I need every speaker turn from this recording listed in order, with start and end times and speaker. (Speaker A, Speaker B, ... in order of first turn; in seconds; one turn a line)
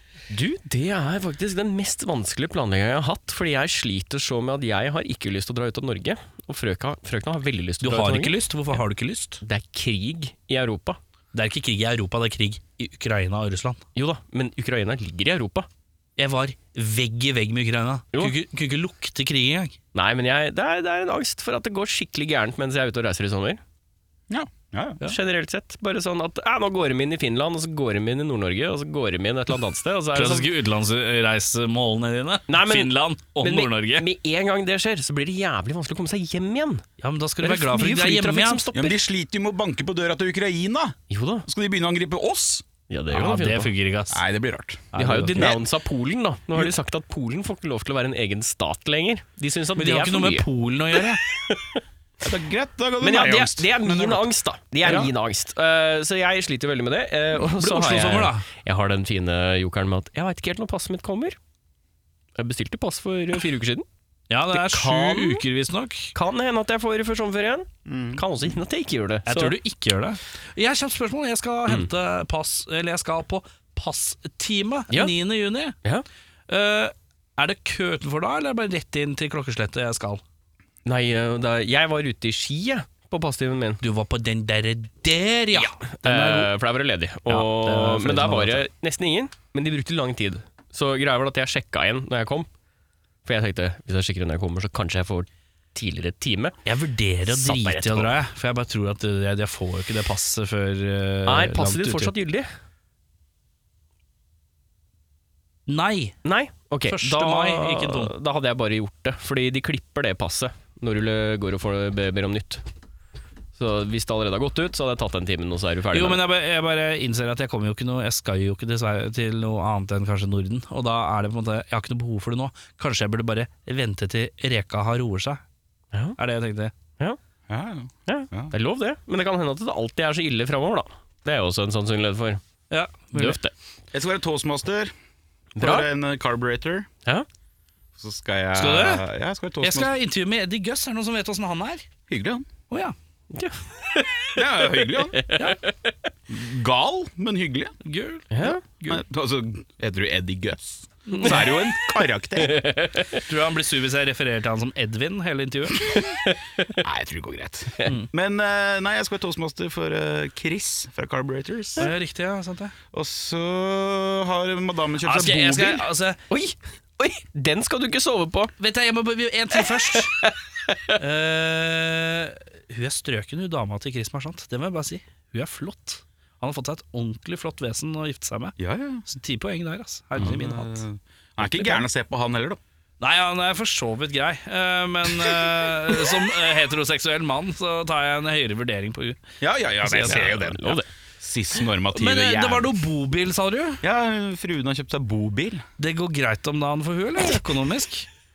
Speaker A: 0.3-8.4
Speaker B: 7.8-9.4
Speaker A: 9.4-11.0
Speaker B: 11.3-13.8
Speaker A: 13.9-15.7
Speaker B: 16.2-19.8
Speaker A: 19.9-23.6
Speaker C: 24.3-25.0
Speaker A: 25.0-30.5
Speaker B: 30.1-34.0
Speaker A: 32.5-36.8
Speaker B: 37.0-38.6
Speaker A: 37.4-39.0
Speaker C: 38.7-42.6
Speaker A: 41.1-41.5
Speaker A: 42.9-43.7
Speaker B: 43.1-44.2
Speaker C: 44.1-45.6
Speaker B: 44.9-45.5
Speaker A: 44.9-50.5
Speaker B: 49.8-51.2
Speaker A: 51.3-51.8
Speaker C: 52.2-54.3
Speaker A: 53.0-61.4
Speaker B: 54.8-55.1
Speaker B: 57.4-58.5
Speaker A: 62.3-63.9
Speaker B: 64.3-66.1
Speaker A: 64.5-65.4
Speaker A: 66.1-69.5
Speaker C: 67.8-68.2
Speaker B: 69.3-75.7
Speaker B: 76.5-80.2
Speaker A: 80.8-83.8
Speaker B: 83.8-86.5
Speaker A: 85.5-92.5
Speaker B: 87.3-88.7
Speaker A: 93.2-96.5
Speaker B: 96.7-102.1
Speaker A: 97.3-98.1
Speaker A: 101.2-102.5
Speaker B: 105.7-106.2
Speaker A: 106.2-112.6
Speaker B: 106.9-108.1
Speaker A: 113.5-116.2
Speaker B: 115.9-125.4
Speaker B: 126.2-126.7
Speaker C: 127.5-128.5
Speaker A: 128.1-132.4
Speaker B: 132.7-133.4
Speaker A: 133.1-133.5
Speaker C: 133.9-134.9
Speaker A: 135.6-135.9
Speaker C: 135.6-136.9
Speaker C: 137.9-139.9
Speaker B: 138.5-139.0
Speaker B: 139.6-141.8
Speaker C: 142.1-142.5
Speaker A: 143.3-145.9
Speaker C: 144.3-145.2
Speaker C: 146.3-147.7
Speaker B: 147.8-149.0
Speaker A: 148.3-148.6
Speaker C: 148.9-152.6
Speaker B: 151.1-151.5
Speaker A: 152.4-153.2
Speaker B: 153.3-156.0
Speaker A: 155.9-156.3
Speaker C: 156.8-161.9
Speaker B: 161.8-162.7
Speaker C: 162.9-165.8
Speaker B: 165.0-166.2
Speaker A: 166.3-168.5
Speaker B: 168.6-170.2
Speaker A: 169.9-170.3
Speaker B: 170.9-180.8
Speaker C: 178.6-179.1
Speaker C: 180.2-182.6
Speaker B: 181.5-181.8
Speaker B: 183.0-189.2
Speaker C: 185.3-185.7
Speaker C: 189.4-192.7
Speaker B: 189.8-190.3
Speaker A: 189.9-190.9
Speaker B: 191.9-193.8
Speaker C: 193.8-195.6
Speaker B: 195.8-198.1